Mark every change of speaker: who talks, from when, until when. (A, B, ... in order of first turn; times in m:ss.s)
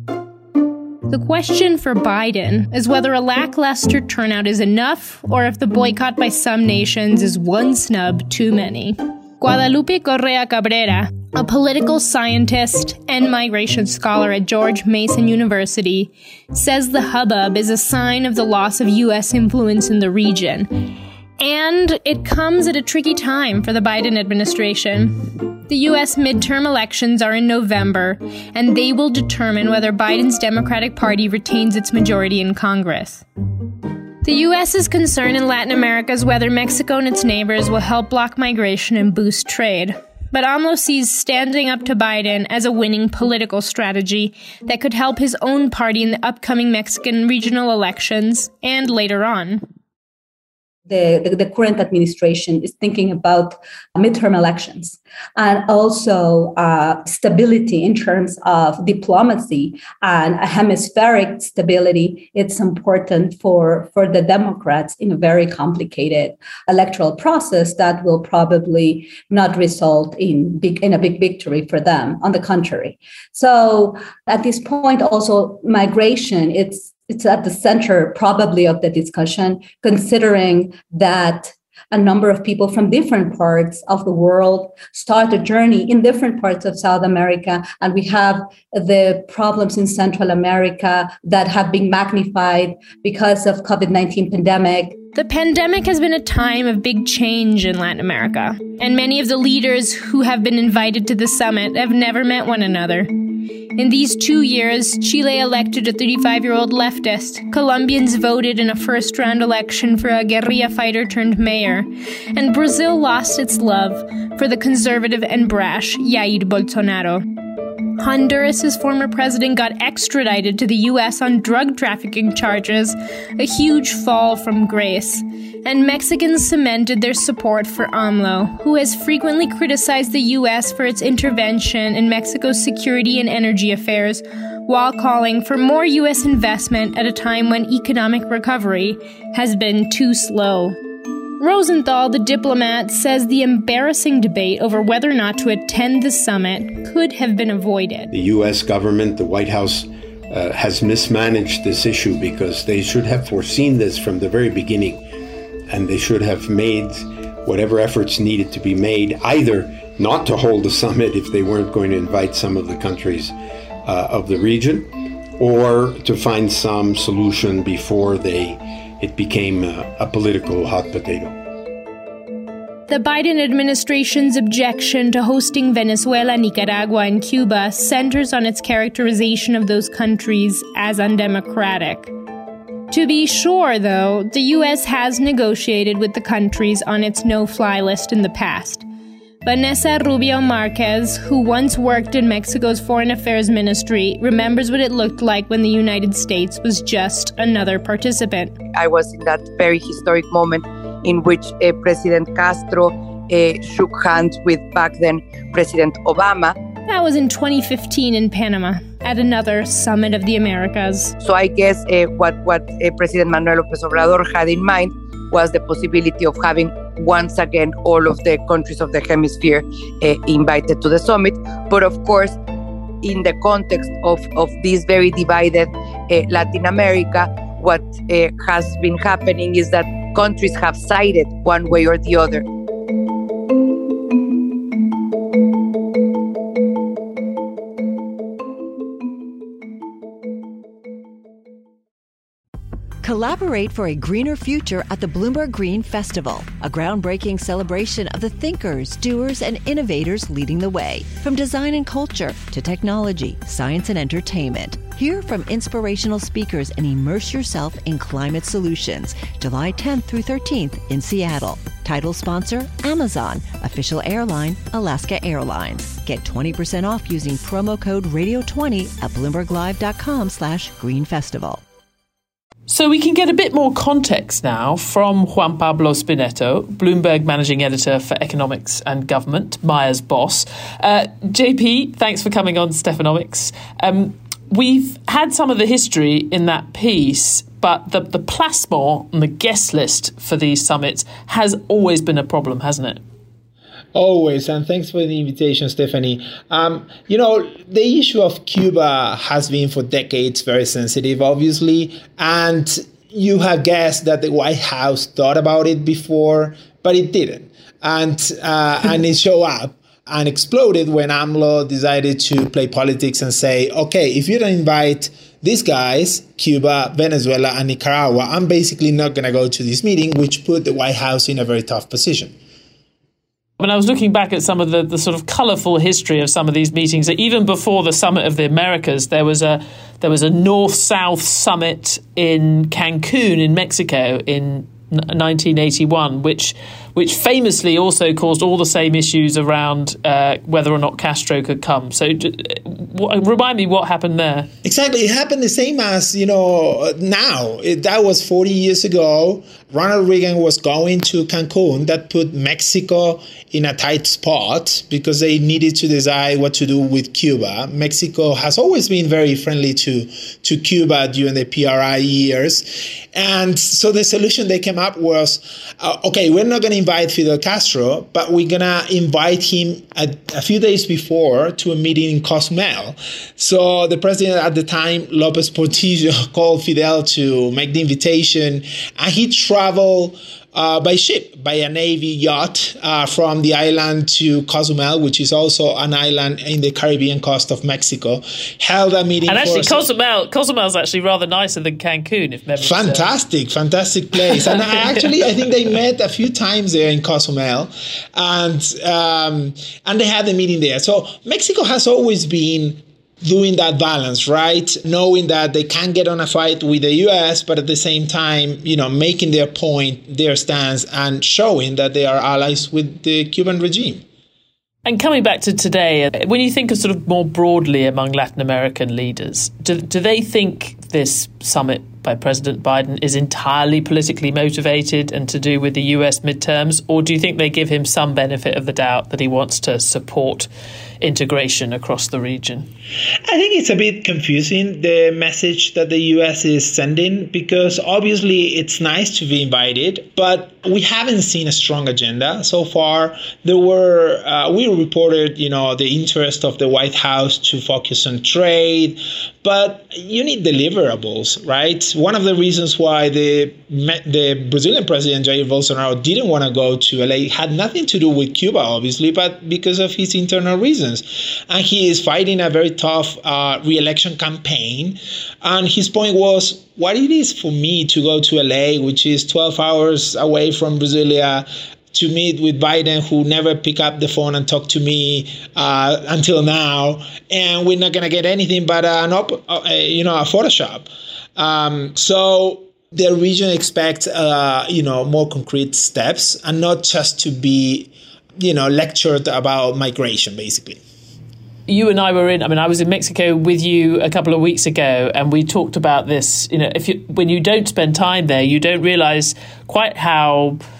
0:01.1-0:20.9 A
0:21.4-0:33.2 A
0:34.2-0:49.6 A
0:50.9-1:35.0 B
1:35.1-1:43.1 A
1:43.8-1:57.2 A
1:58.0-2:20.8 A
2:21.4-2:28.1 A
2:28.1-2:35.0 C
2:35.7-2:51.4 C
2:52.9-3:02.1 A
3:02.9-3:08.8 A
3:09.4-3:18.6 A
3:18.7-3:26.5 D
3:26.9-3:31.1 A
3:31.2-3:42.4 D
3:43.0-3:52.4 D
4:03.0-4:31.6 E
4:32.7-4:53.0 F
4:53.9-5:22.3 G
5:23.6-5:44.5 F
5:44.6-6:29.8 G
6:29.3-6:33.1 F
6:32.6-6:54.0 G
6:54.8-7:10.5 F
7:11.0-7:12.7 F
7:13.3-8:10.8 G
8:11.7-8:20.6 F